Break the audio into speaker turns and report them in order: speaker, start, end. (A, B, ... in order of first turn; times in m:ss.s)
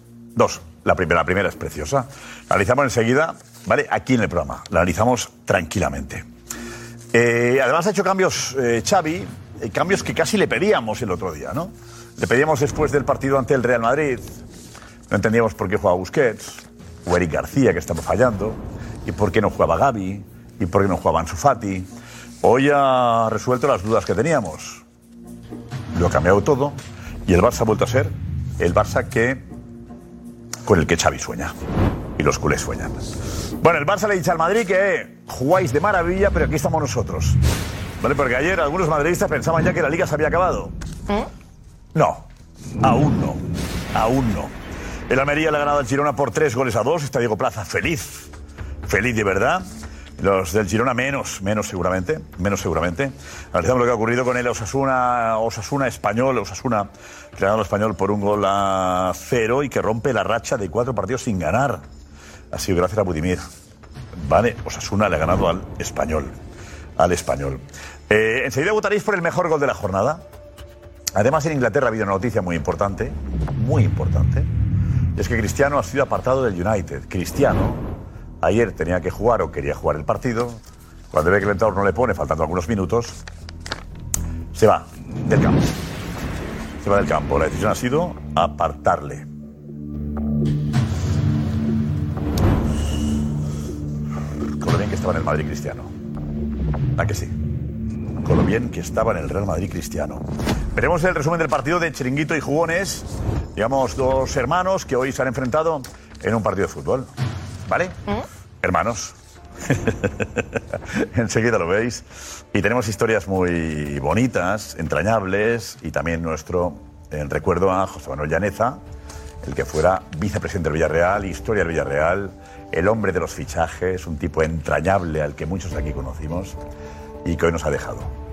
0:00.4-0:06.2 A
0:07.1-0:14.3 A
0:15.1-0:21.9 A
0:22.4-0:24.8 A
0:25.9-0:29.4 A
0:30.6-0:31.5 A
0:32.2-0:33.1 A
0:33.6-0:37.4 A
0:38.0-0:40.7 A
0:42.0-0:42.3 A
0:42.8-0:43.4 A
0:43.9-0:44.5 A
0:45.1-0:48.3 A
0:48.9-0:49.7 A
0:50.2-1:01.8 A
1:02.5-1:03.4 A
1:04.2-1:06.4 A
1:07.0-1:10.2 A
1:11.2-1:14.5 A
1:15.2-1:17.8 A
1:18.4-1:20.6 A
1:21.1-1:23.2 A
1:24.5-1:25.7 A
1:26.8-1:29.3 A
1:34.6-1:35.9 A
1:37.0-1:37.3 A
1:38.2-1:40.2 A
1:40.8-1:47.1 A
1:47.7-1:48.0 A
1:48.6-1:49.2 A
1:49.7-1:58.8 A
1:59.4-2:06.6 A
2:07.2-2:08.1 A